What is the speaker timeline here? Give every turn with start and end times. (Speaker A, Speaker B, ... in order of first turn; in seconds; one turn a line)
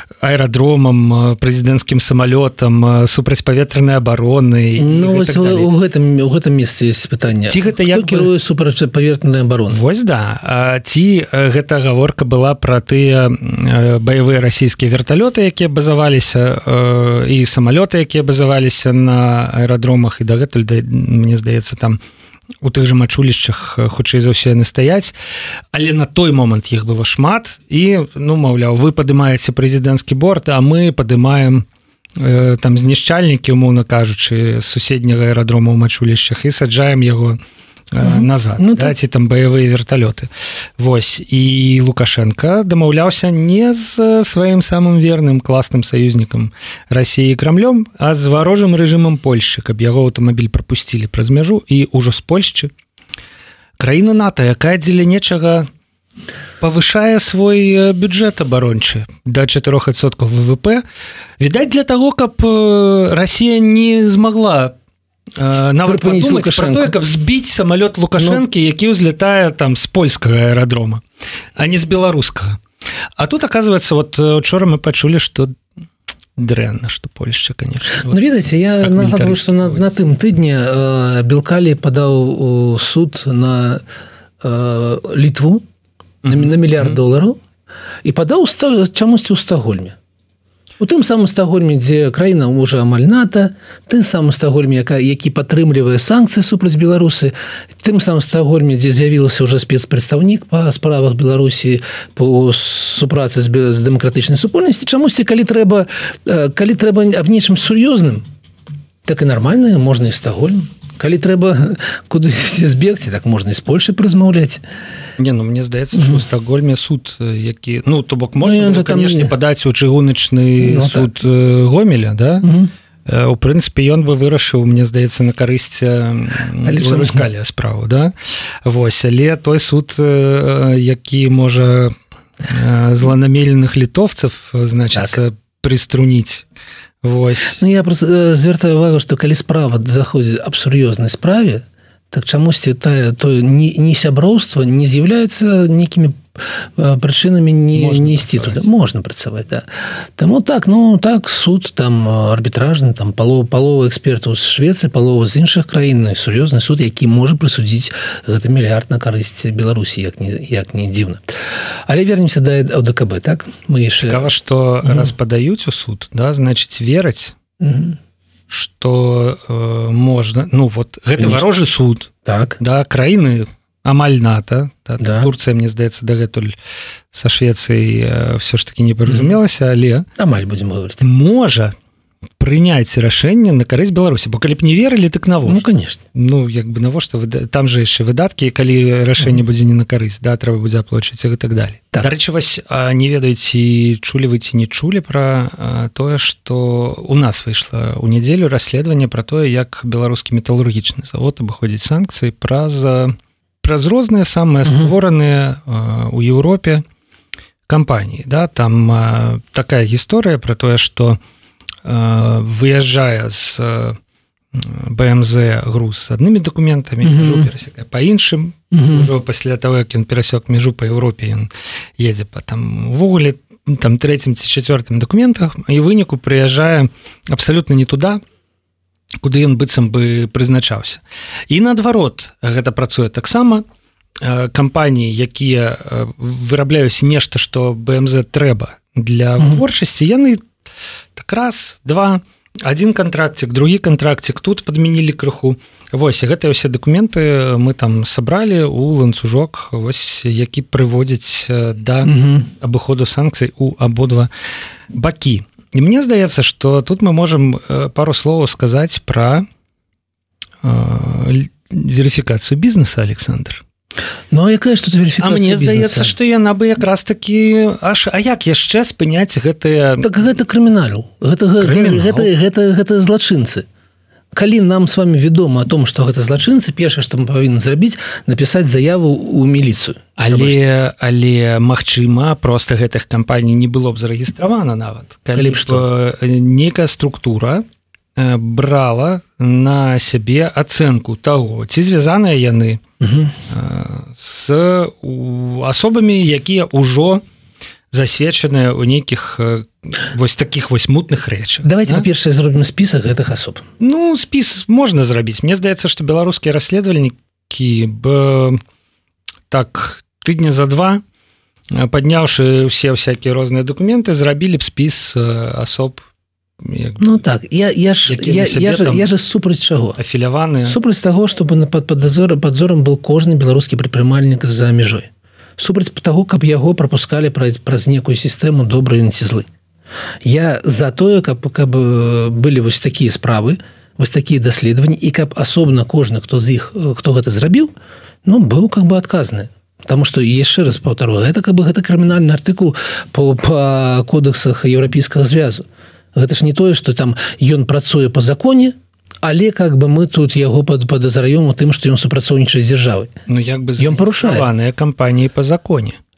Speaker A: 0.2-5.7
Speaker B: 4.8-9.8
Speaker A: 7.5-8.3
Speaker A: 9.7-22.0
Speaker A: 22.6-25.1
Speaker A: 25.7-31.6
Speaker A: 32.2-37.4
Speaker A: 37.9-52.7
Speaker B: 38.0-38.9
Speaker A: 53.8-55.7
Speaker A: 56.6-60.8
Speaker A: 61.4-64.7
Speaker A: 65.4-71.0
Speaker B: 65.8-66.9
Speaker B: 68.2-68.4
Speaker A: 71.6-72.6
Speaker A: 73.2-75.5
Speaker A: 76.4-78.2
Speaker B: 78.0-83.8
Speaker A: 78.8-80.0
Speaker B: 84.4-85.6
Speaker A: 86.2-87.0
Speaker B: 86.2-87.4
Speaker B: 88.0-90.0
Speaker B: 90.8-108.2
Speaker B: 109.0-114.6
Speaker A: 115.2-122.5
Speaker B: 115.9-116.2
Speaker B: 118.4-119.3
Speaker B: 120.6-121.1
Speaker B: 122.4-122.7
Speaker A: 123.0-128.1
Speaker B: 126.6-127.3
Speaker A: 128.6-131.9
Speaker A: 132.5-136.4
Speaker A: 137.0-137.6
Speaker B: 137.5-161.2
Speaker A: 147.7-148.7
Speaker B: 161.9-164.3
Speaker A: 164.1-167.4
Speaker B: 164.8-165.1
Speaker B: 167.6-168.0
Speaker A: 168.5-176.5
Speaker B: 171.2-171.4
Speaker B: 172.2-172.6
Speaker B: 175.0-175.3
Speaker A: 177.1-180.1
Speaker B: 179.1-179.4
Speaker B: 180.2-181.0
Speaker A: 181.0-181.7
Speaker A: 182.4-206.8
Speaker B: 185.4-186.0
Speaker B: 189.2-189.4
Speaker B: 204.6-204.9
Speaker A: 207.7-211.2
Speaker A: 211.8-214.0
Speaker A: 214.5-228.2
Speaker B: 217.0-217.5
Speaker B: 218.7-219.1
Speaker A: 229.2-233.6
Speaker A: 234.2-240.4
Speaker A: 241.2-254.3
Speaker B: 252.0-252.5
Speaker A: 254.9-259.4
Speaker A: 260.6-263.6
Speaker B: 264.3-266.1
Speaker A: 265.2-270.1
Speaker B: 270.0-273.6
Speaker A: 271.6-272.3
Speaker B: 274.3-280.6
Speaker A: 280.2-287.6
Speaker B: 285.3-285.8
Speaker A: 288.2-292.8
Speaker B: 293.0-293.3
Speaker A: 293.5-297.2
Speaker A: 297.9-302.0
Speaker B: 301.6-303.6
Speaker A: 303.8-308.6
Speaker A: 309.5-311.0
Speaker A: 311.7-316.1
Speaker A: 316.6-317.2
Speaker B: 317.0-320.0
Speaker A: 318.1-319.0
Speaker A: 320.0-320.8
Speaker B: 320.6-329.5
Speaker B: 330.2-337.7
Speaker B: 338.2-353.1
Speaker A: 353.3-356.0
Speaker B: 353.8-354.5